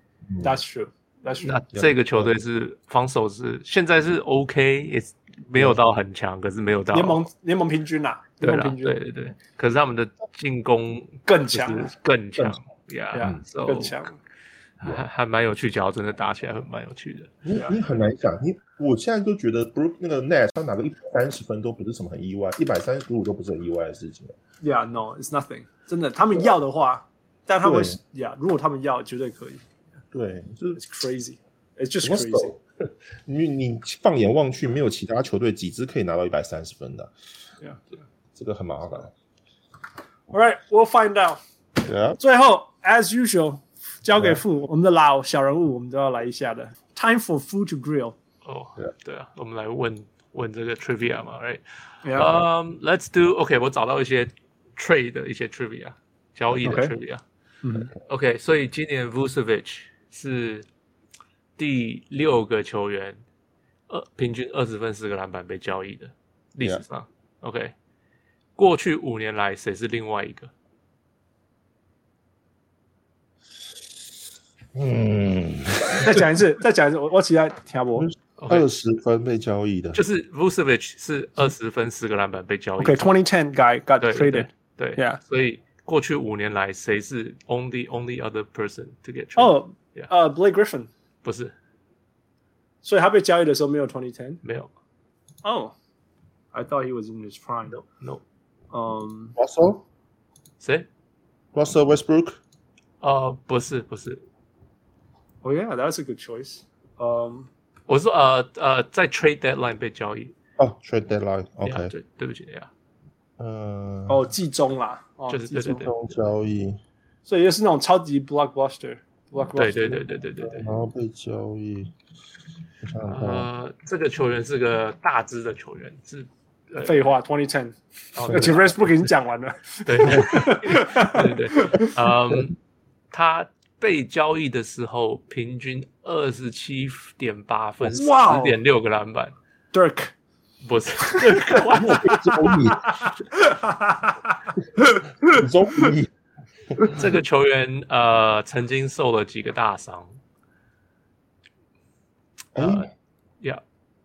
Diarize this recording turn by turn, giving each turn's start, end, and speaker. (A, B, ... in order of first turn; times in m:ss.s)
0:00.4-0:01.6 A
0:01.4-0:07.3 B
0:01.7-0:02.3 C
0:05.6-0:05.8 C
0:06.9-0:09.0 A
0:08.4-0:14.0 B
0:11.3-0:11.9 A
0:13.1-0:14.2 A
0:14.8-0:17.3 B
0:17.4-0:24.3 C
0:24.6-0:29.6 A
0:27.6-0:28.0 C
0:30.1-0:30.8 C
0:30.8-0:32.5 A
0:32.0-0:32.6 C
0:33.2-0:37.1 C
0:38.4-0:39.1 C
0:40.3-0:41.4 A
0:41.8-0:42.2 C
0:42.2-0:48.2 A
0:48.4-0:51.6 B
0:52.0-0:52.3 A
0:52.1-0:57.2 B
0:56.6-0:56.9 A
0:57.6-0:57.9 A
0:58.0-1:00.7 B
1:01.6-1:03.2 B
1:03.9-1:07.7 B
1:08.6-1:10.5 B
1:14.7-1:16.2 C
1:15.9-1:18.1 A
1:18.0-1:20.0 C
1:18.4-1:18.8 B
1:19.9-1:23.1 B
1:22.8-1:25.2 A
1:24.0-1:30.1 B
1:29.4-1:30.9 A
1:31.2-1:31.5 B
1:32.8-1:34.4 A
1:34.4-1:34.7 B
1:35.4-1:35.8 A
1:36.5-1:37.8 A
1:38.7-1:39.4 A
1:39.4-1:39.8 C
1:40.6-1:40.9 B
1:41.5-1:42.4 C
1:43.0-1:44.2 B
1:45.4-1:47.5 A
1:47.9-1:50.3 B
1:50.6-1:51.9 C
1:51.6-1:52.7 B
1:53.4-1:54.3 C
1:54.1-1:55.9 A
1:55.3-1:55.9 B
1:55.7-1:56.8 C
1:57.3-2:00.0 A
1:59.6-2:00.7 B
2:00.4-2:01.9 C
2:02.8-2:03.5 C
2:03.0-2:07.0 B
2:06.8-2:11.9 A
2:08.2-2:08.8 B
2:09.9-2:12.6 B
2:13.1-2:19.4 B
2:17.9-2:18.6 A
2:19.7-2:20.1 A
2:20.6-2:21.9 B
2:21.0-2:25.9 A
2:21.7-2:22.9 C
2:25.2-2:26.1 C
2:26.9-2:30.2 B
2:32.6-2:32.9 C
2:32.6-2:32.9 B